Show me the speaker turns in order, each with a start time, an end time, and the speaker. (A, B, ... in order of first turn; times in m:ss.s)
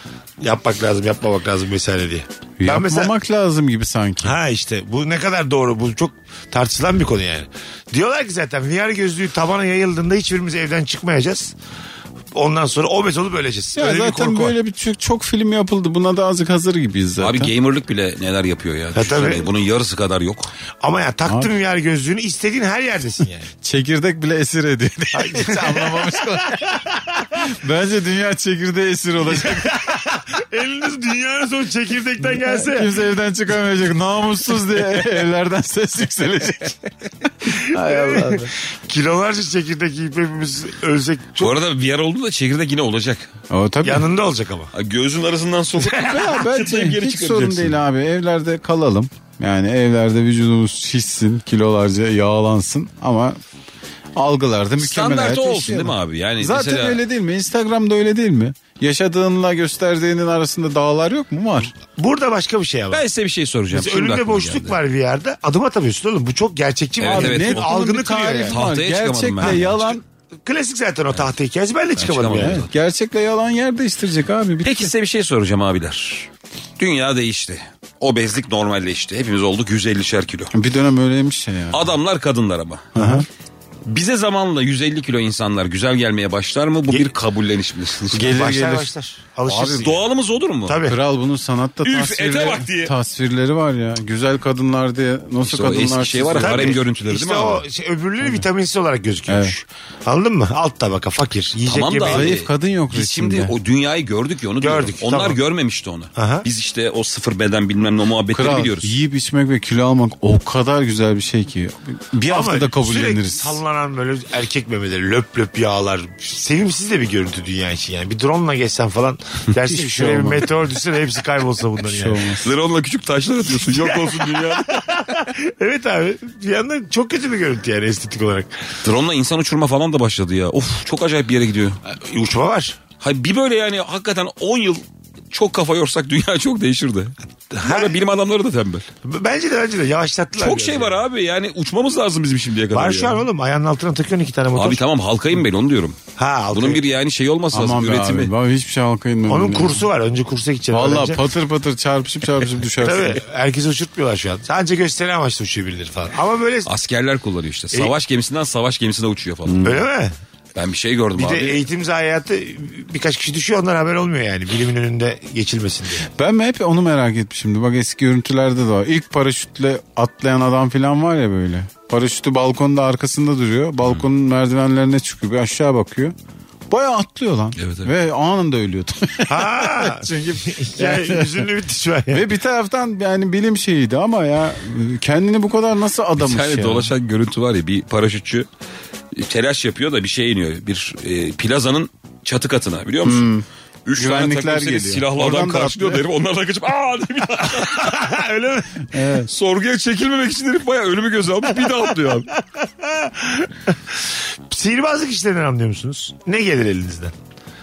0:00.4-0:03.1 A
0:02.6-0:04.4 B
0:04.2-0:11.6 A
0:12.3-0:14.6 A
0:13.8-0:17.5 B
0:17.2-0:20.5 C
0:19.0-0:19.5 A
0:20.8-0:23.5 A
0:23.6-0:26.8 B
0:25.1-0:27.3 A
0:27.4-0:29.8 B
0:29.3-0:32.9 A
0:32.3-0:36.8 B
0:37.5-0:38.5 B
0:37.5-0:41.6 A
0:41.4-0:43.3 C
0:43.5-0:44.1 B
0:43.8-0:44.7 A
0:44.7-0:47.8 C
0:45.8-0:53.4 B
0:54.2-1:01.7 B
0:54.8-0:57.0 C
1:02.0-1:03.0 A
1:02.9-1:04.8 C
1:03.7-1:08.6 A
1:07.0-1:07.8 C
1:07.0-1:10.0 B
1:08.5-1:10.0 C
1:09.4-1:09.7 A
1:10.4-1:12.7 A
1:12.0-1:12.7 C
1:12.4-1:14.9 B
1:14.6-1:20.5 C
1:20.5-1:21.9 B
1:21.7-1:23.0 C
1:23.0-1:23.3 B
1:23.0-1:23.2 A
1:23.9-1:28.5 C
1:28.1-1:28.9 B
1:28.3-1:30.1 A
1:29.5-1:29.9 B
1:29.6-1:30.8 C
1:30.7-1:31.0 A
1:30.8-1:36.8 B
1:31.8-1:32.9 C
1:35.4-1:37.6 C
1:36.4-1:42.4 A
1:39.3-1:39.6 B
1:41.7-1:49.0 C
1:42.1-1:43.5 B
1:44.6-1:45.4 A
1:46.2-1:46.5 A
1:48.3-1:53.6 B
1:52.3-2:02.3 A
1:59.7-2:00.5 B
2:01.8-2:02.5 B
2:02.4-2:04.8 C
2:03.5-2:08.5 A
2:08.8-2:11.8 C
2:11.9-2:12.8 A
2:13.0-2:18.8 C
2:17.5-2:17.9 A
2:19.0-2:21.0 A
2:20.4-2:23.2 C
2:22.7-2:24.8 A
2:24.6-2:26.0 C
2:26.2-2:26.8 A
2:26.5-2:28.3 C
2:27.5-2:29.9 B
2:29.3-2:31.2 A
2:30.7-2:33.2 B
2:32.8-2:36.7 A
2:36.7-2:39.6 C
2:39.5-2:39.8 B
2:39.6-2:40.2 A
2:40.6-2:41.6 C
2:41.2-2:46.1 A
2:46.1-2:56.2 B
2:56.7-3:01.5 B
2:57.6-2:57.9 C
2:59.3-3:02.2 A
3:02.1-3:06.9 B
3:06.2-3:08.5 C
3:09.1-3:13.3 C
3:13.0-3:13.4 B
3:13.9-3:18.0 C
3:14.0-3:16.0 B
3:17.5-3:18.9 A
3:18.9-3:19.3 B
3:19.3-3:22.3 C
3:22.3-3:27.1 A